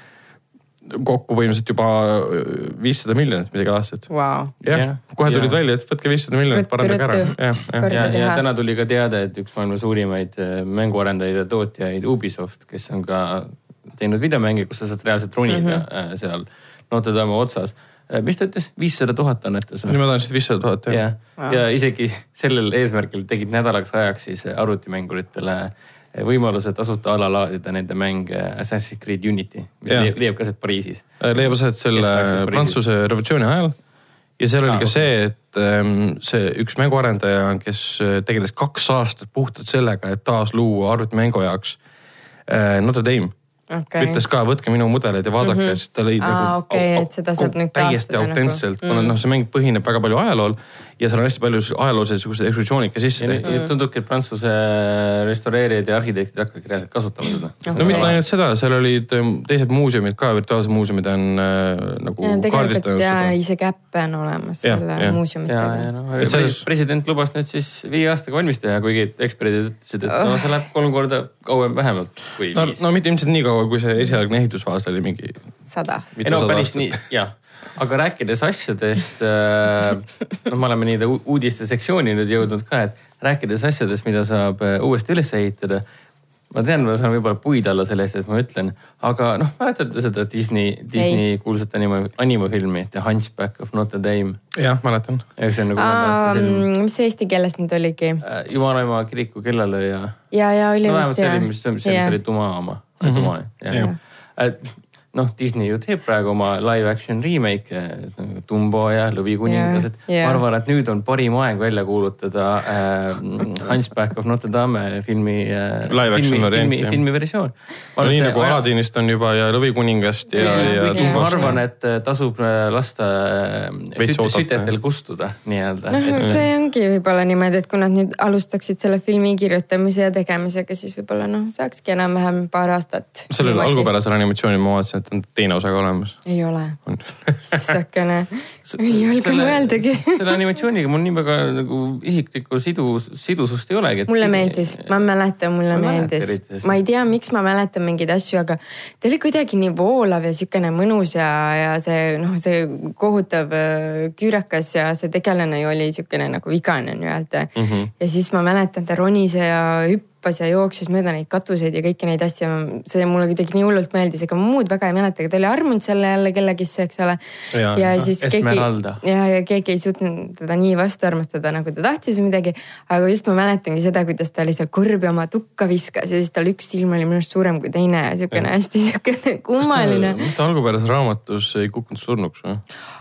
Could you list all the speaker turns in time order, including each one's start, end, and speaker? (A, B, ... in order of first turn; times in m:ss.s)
0:00.9-0:04.1 A
0:04.1-0:04.5 B
0:04.6-0:08.1 A
0:04.7-0:05.6 C
0:06.5-0:08.4 B
0:07.9-0:20.0 C
0:15.5-0:15.8 B
0:19.9-0:21.0 A
0:20.9-0:31.1 C
0:29.9-0:30.1 A
0:31.2-0:33.8 A
0:31.9-0:32.8 C
0:34.4-0:41.8 A
0:34.7-0:35.1 C
0:42.5-0:43.3 A
0:43.7-0:44.2 B
0:44.0-0:53.5 A
0:45.4-0:49.2 B
0:53.2-0:58.2 C
0:53.4-0:53.7 B
0:57.7-0:58.1 B
0:57.8-1:03.3 A
1:02.2-1:05.9 B
1:04.6-1:05.2 A
1:05.5-1:12.8 C
1:06.2-1:06.6 A
1:10.1-1:10.5 B
1:12.5-1:15.4 A
1:15.7-1:16.1 B
1:16.2-1:17.0 A
1:16.2-1:25.8 C
1:26.5-1:34.4 C
1:31.0-1:31.2 B
1:34.5-1:35.2 A
1:35.4-1:36.7 C
1:35.8-1:38.2 B
1:38.2-1:40.2 C
1:40.3-1:42.2 B
1:40.8-1:58.6 C
1:43.0-1:43.9 A
1:49.5-1:50.4 B
1:55.9-1:57.0 A
1:58.0-2:01.6 A
2:00.4-2:06.4 C
2:00.4-2:01.5 B
2:04.0-2:04.7 A
2:05.9-2:13.9 B
2:13.3-2:16.2 A
2:16.2-2:16.8 B
2:16.9-2:17.7 A
2:17.4-2:20.4 B
2:18.7-2:24.9 C
2:24.1-2:47.2 B
2:25.7-2:26.8 C
2:37.6-2:37.9 A
2:47.5-2:47.9 A
2:47.7-3:00.2 B
2:48.0-2:49.0 C
2:59.6-3:02.6 A